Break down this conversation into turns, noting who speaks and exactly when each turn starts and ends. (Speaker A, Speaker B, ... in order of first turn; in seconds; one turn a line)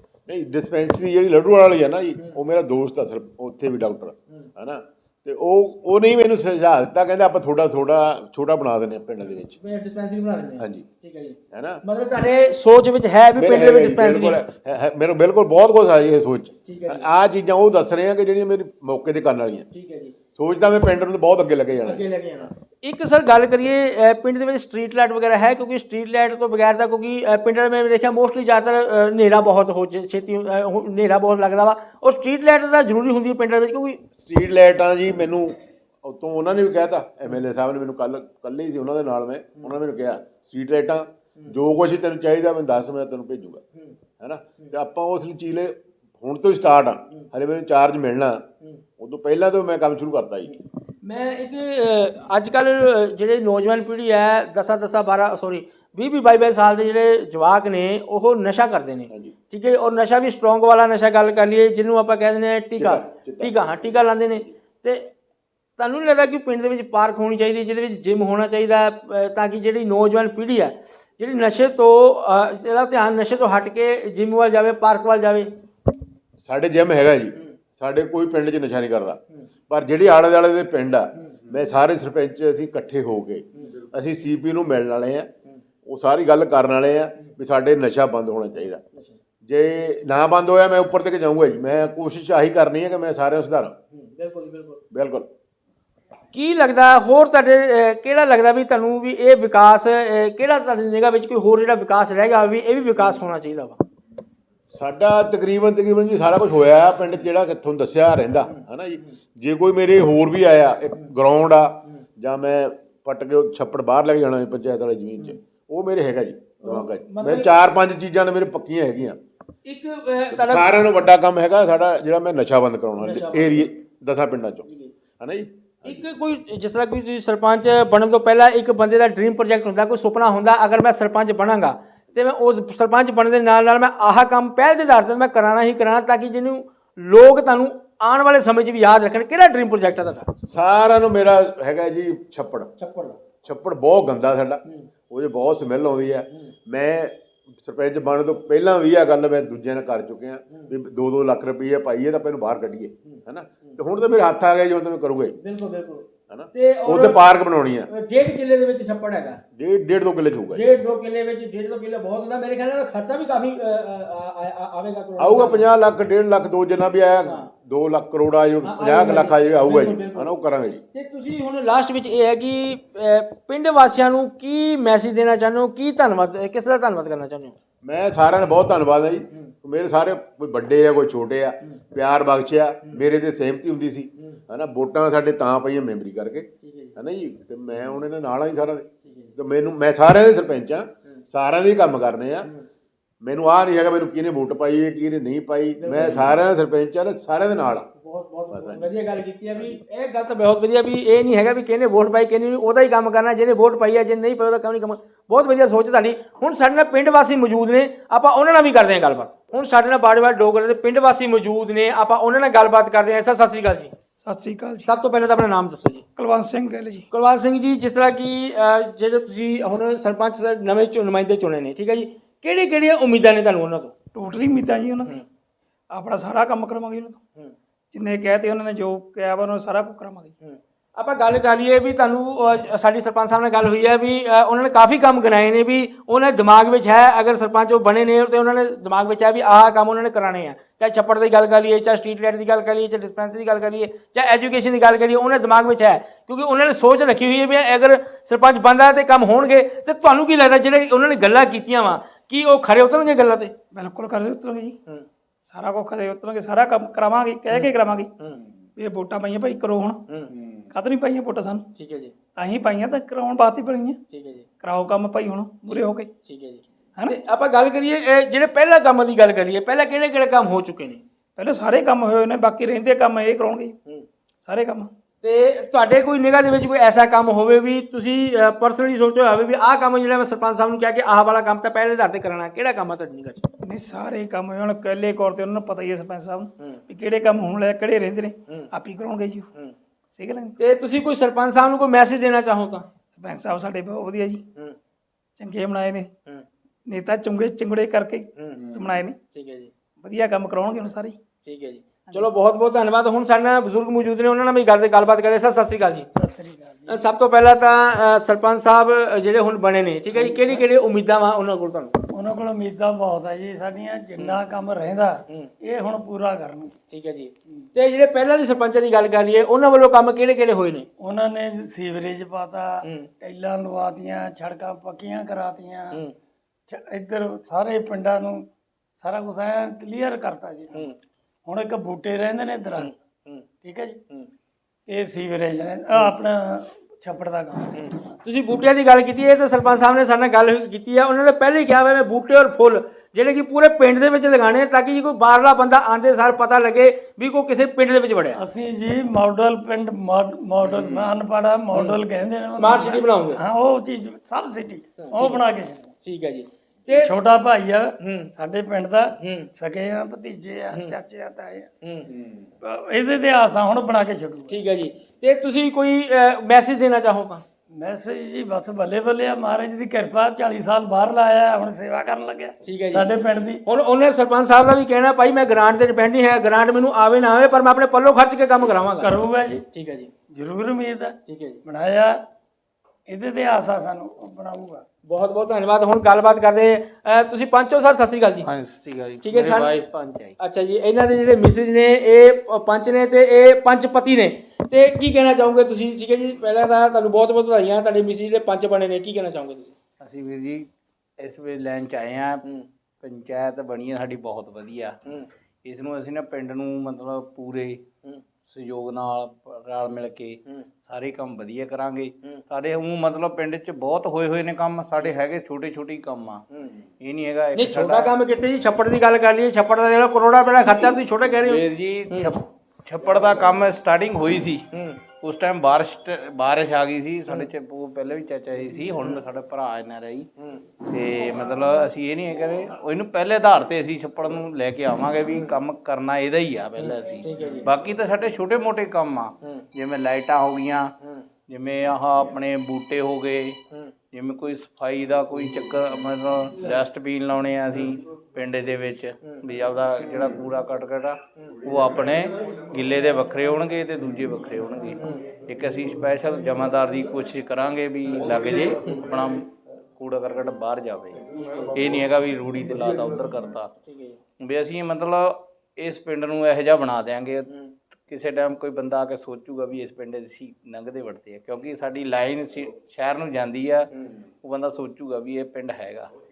Speaker A: 0.3-9.6
Speaker B: 9.6-14.4
Speaker A: 10.6-10.8
Speaker A: 11.5-11.8
Speaker A: 13.3-19.7
Speaker B: 16.6-17.0
Speaker B: 19.7-20.1
Speaker A: 20.4-22.0
Speaker B: 21.9-34.0
Speaker A: 34.2-43.6
Speaker A: 44.2-48.4
Speaker A: 49.0-50.6
Speaker B: 51.0-65.1
Speaker A: 62.8-63.6
Speaker B: 65.8-75.5
Speaker A: 76.4-85.3
Speaker A: 85.9-88.8
Speaker A: 89.5-93.8
Speaker B: 93.9-94.8
Speaker A: 94.9-95.3
Speaker B: 96.3-103.8
Speaker A: 104.7-119.2
Speaker B: 116.6-117.5
Speaker B: 119.6-120.7
Speaker A: 120.3-124.7
Speaker B: 123.0-123.6
Speaker A: 125.2-126.0
Speaker B: 125.8-140.3
Speaker A: 140.4-142.7
Speaker B: 142.8-143.2
Speaker A: 143.4-155.4
Speaker B: 153.1-153.8
Speaker B: 155.4-157.2
Speaker A: 156.3-157.9
Speaker B: 157.9-159.4
Speaker A: 159.6-160.6
Speaker B: 160.5-165.6
Speaker A: 165.2-170.8
Speaker B: 168.6-170.3
Speaker B: 170.9-177.5
Speaker A: 177.8-192.5
Speaker B: 186.6-186.9
Speaker B: 189.0-189.3
Speaker A: 193.2-197.9
Speaker B: 195.8-196.4
Speaker B: 198.0-213.9
Speaker A: 198.5-198.8
Speaker C: 214.2-214.9
Speaker B: 214.8-216.0
Speaker C: 216.2-217.1
Speaker B: 217.1-223.9
Speaker C: 224.1-225.2
Speaker C: 225.9-227.2
Speaker C: 227.9-230.3
Speaker B: 230.4-253.5
Speaker C: 253.7-254.8
Speaker C: 255.5-258.1
Speaker B: 257.5-258.4
Speaker C: 258.8-260.0
Speaker C: 260.7-261.7
Speaker B: 261.8-262.1
Speaker C: 262.3-264.0
Speaker B: 264.1-264.5
Speaker C: 264.6-266.1
Speaker B: 265.7-271.0
Speaker C: 271.4-273.8
Speaker C: 274.4-274.9
Speaker B: 275.2-283.5
Speaker C: 283.6-289.5
Speaker C: 290.1-290.6
Speaker B: 290.6-292.9
Speaker C: 293.2-294.4
Speaker C: 295.4-296.1
Speaker C: 296.9-299.2
Speaker B: 298.4-298.6
Speaker B: 299.3-299.7
Speaker C: 300.0-301.2
Speaker B: 301.4-306.1
Speaker D: 306.1-307.0
Speaker B: 306.9-312.0
Speaker D: 312.1-316.7
Speaker B: 316.9-320.9
Speaker D: 321.0-326.0
Speaker D: 326.7-330.9
Speaker D: 331.4-332.9
Speaker B: 332.8-333.4
Speaker D: 333.6-334.0
Speaker D: 334.9-337.8
Speaker B: 337.8-348.4
Speaker D: 348.4-355.9
Speaker B: 352.5-353.4
Speaker B: 355.0-355.4
Speaker B: 356.0-357.1
Speaker D: 356.9-361.7
Speaker B: 358.0-358.3
Speaker B: 359.2-359.5
Speaker B: 361.8-362.1
Speaker D: 362.6-364.6
Speaker B: 364.5-367.4
Speaker D: 367.7-373.6
Speaker B: 372.6-380.1
Speaker D: 379.0-379.6
Speaker D: 380.3-382.2
Speaker B: 381.3-381.6
Speaker D: 383.1-384.8
Speaker B: 385.1-388.5
Speaker E: 388.4-390.4
Speaker B: 389.2-389.7
Speaker B: 390.4-399.7
Speaker E: 400.0-400.7
Speaker E: 401.2-402.4
Speaker E: 403.0-404.9
Speaker E: 405.6-407.8
Speaker E: 408.4-416.4
Speaker E: 417.0-418.1
Speaker B: 417.5-422.3
Speaker E: 421.4-424.6
Speaker B: 424.7-425.0
Speaker E: 425.2-430.3
Speaker E: 430.9-440.9
Speaker B: 436.8-437.7
Speaker E: 441.5-443.6
Speaker E: 444.1-463.7
Speaker B: 463.9-464.2
Speaker E: 464.4-467.5
Speaker E: 468.1-473.9
Speaker E: 474.4-476.1